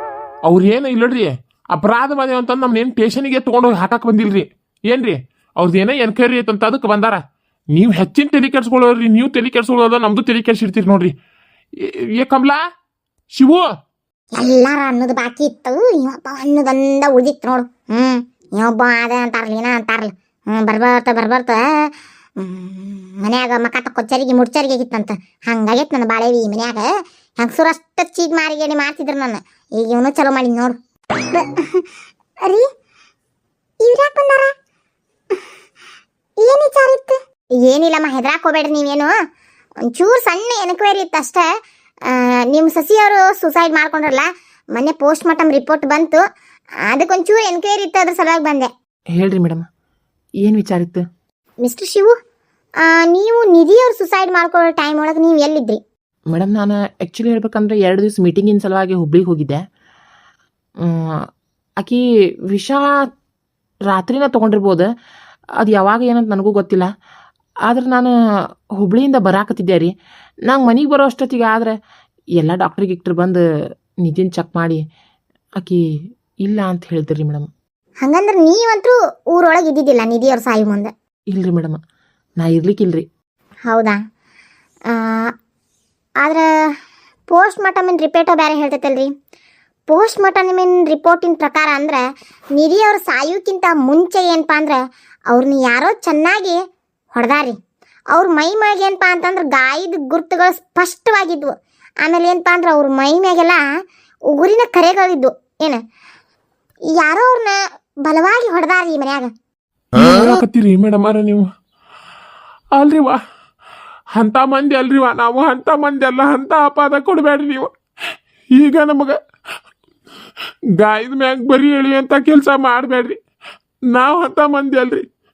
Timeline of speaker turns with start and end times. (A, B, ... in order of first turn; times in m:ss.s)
0:00.4-0:11.1 A
0:11.8-0:12.6 A
0:13.3-0:13.7 A
0:14.3-0:31.8 B
0:33.8-0:34.5 B
0:36.4-0:39.1 B
0:39.8-0:41.5 B
0:42.0-0:46.2 B
0:46.8-0:48.7 B
0:49.1-0:49.6 C
0:50.4-0:51.0 C
0:51.6-0:52.1 B
0:52.8-0:55.8 B
0:56.3-0:59.6 C
1:00.8-1:01.2 C
1:01.8-1:03.1 C
1:03.8-1:04.9 C
1:05.6-1:06.9 C
1:07.6-1:08.1 C
1:08.8-1:09.9 C
1:10.4-1:11.7 C
1:12.4-1:13.4 C
1:14.0-1:14.8 C
1:15.6-1:15.8 C
1:16.4-1:17.5 C
1:18.0-1:20.9 B
1:21.3-1:21.8 C
1:22.4-1:23.0 C
1:23.7-1:24.0 B
1:24.9-1:25.3 B
1:26.2-1:26.5 B
1:27.3-1:29.1 B
1:29.9-1:32.0 B
1:32.6-1:36.6 B
1:37.1-1:37.6 B
1:38.1-1:43.6 B
1:44.3-1:45.8 B
1:46.9-1:49.3 B
1:49.9-1:51.5 A
1:52.7-1:53.2 A
1:54.1-1:57.7 A
1:58.5-1:59.2 A
2:00.7-2:03.2 A
2:03.9-2:05.0 A